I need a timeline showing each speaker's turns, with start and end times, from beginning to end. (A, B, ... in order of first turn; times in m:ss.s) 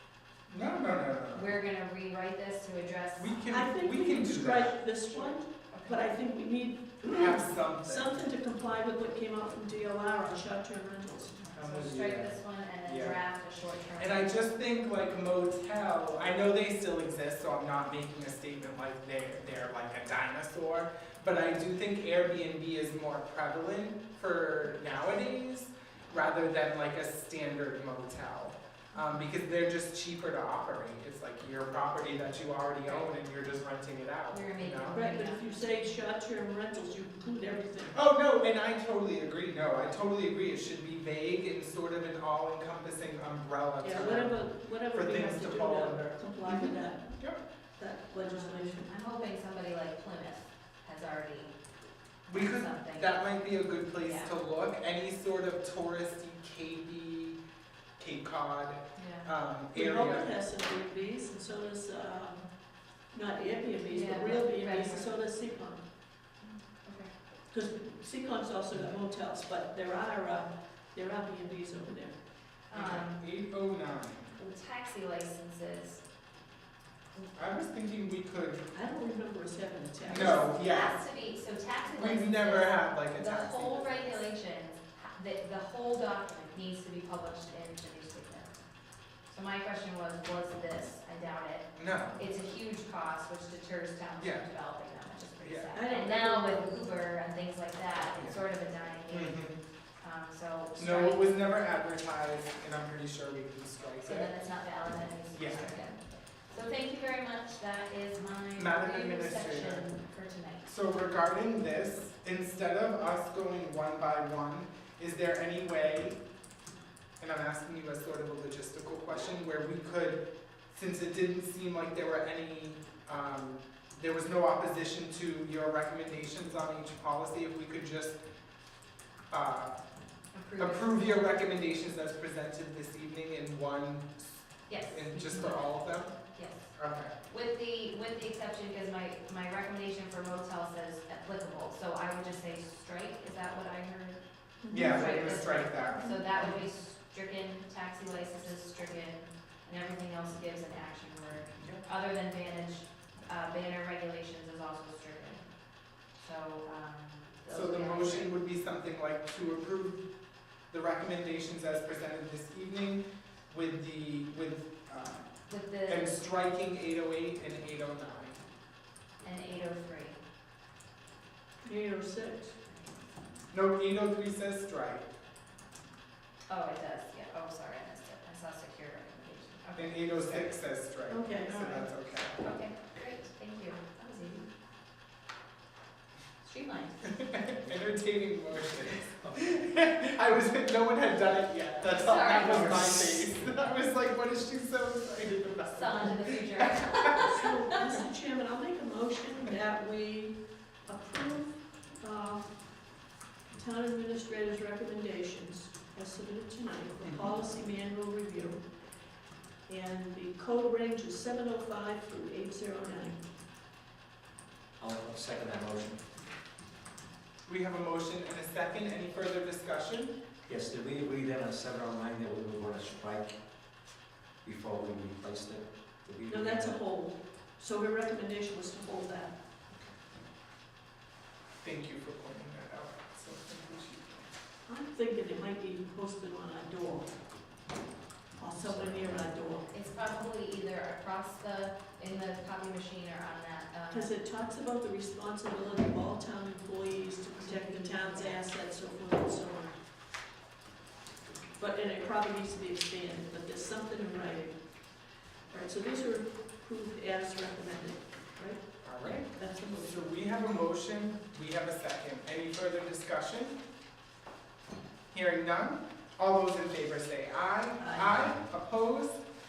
0:00.5-0:01.6 A
0:01.3-0:03.5 B
0:03.2-0:04.8 A
0:03.5-0:11.4 C
0:05.1-0:06.1 B
0:07.0-0:08.2 A
0:11.4-0:14.4 B
0:11.5-0:13.2 A
0:14.0-0:35.0 A
0:32.8-0:33.1 B
0:34.3-0:35.7 B
0:34.9-0:38.0 C
0:37.9-0:47.4 A
0:43.8-0:47.1 C
0:47.8-0:48.9 C
0:48.2-0:51.5 B
0:52.2-0:57.4 A
0:52.3-0:53.2 B
0:54.0-0:54.3 B
0:58.0-1:00.3 A
0:59.0-0:59.3 B
0:59.7-1:02.5 C
1:03.1-1:05.8 C
1:03.8-1:05.1 B
1:06.4-1:07.1 B
1:07.5-1:12.2 C
1:12.7-1:13.2 B
1:12.7-1:14.4 A
1:14.4-1:16.0 B
1:17.3-1:18.6 A
1:18.7-1:20.5 C
1:20.1-1:21.0 A
1:20.1-1:28.6 B
1:21.9-1:24.2 A
1:29.3-1:39.4 B
1:31.8-1:32.2 A
1:34.2-1:34.5 A
1:35.4-1:35.7 A
1:35.7-1:36.9 C
1:38.1-1:38.4 A
1:39.1-1:39.6 A
1:40.0-1:41.2 B
1:40.8-1:44.3 A
1:44.0-1:50.7 B
1:45.3-1:45.8 A
1:48.6-1:49.9 A
1:50.7-1:56.2 A
1:57.2-2:08.2 A
2:09.3-2:09.7 A
2:10.3-2:11.3 B
2:10.6-2:16.2 A
2:14.7-2:16.7 B
2:16.8-2:17.1 A
2:17.2-2:24.2 B
2:24.6-2:25.1 C
2:24.7-2:26.2 A
2:24.7-2:35.4 B
2:25.9-2:26.6 C
2:31.6-2:31.8 A
2:36.2-2:38.3 B
2:37.5-2:40.1 A
2:40.7-2:45.3 A
2:45.5-2:46.2 B
2:45.8-2:48.4 A
2:49.2-2:50.2 B
2:51.6-2:52.5 C
2:52.7-2:53.1 B
2:53.5-2:55.0 A
2:56.5-3:00.5 B
2:59.8-3:02.4 A
3:01.1-3:01.9 C
3:02.4-3:04.4 B
3:06.4-3:07.3 B
3:07.0-3:17.3 A
3:08.8-3:09.5 D
3:11.8-3:13.2 B
3:15.7-3:17.9 B
3:17.1-3:22.5 C
3:23.5-3:28.6 C
3:29.7-3:33.2 C
3:34.8-3:36.0 D
3:37.4-3:40.1 A
3:40.5-3:43.4 D
3:44.4-3:46.8 D
3:46.3-3:49.4 C
3:51.6-3:54.3 A
3:54.7-3:57.1 C
3:58.4-3:59.7 C
3:58.5-3:59.2 D
3:59.7-4:04.1 B
4:03.9-4:09.8 C
4:07.4-4:08.4 B
4:11.6-4:14.6 C
4:15.5-4:18.7 C
4:18.8-4:23.6 A
4:19.3-4:20.0 C
4:25.1-4:29.2 A
4:27.8-4:28.3 C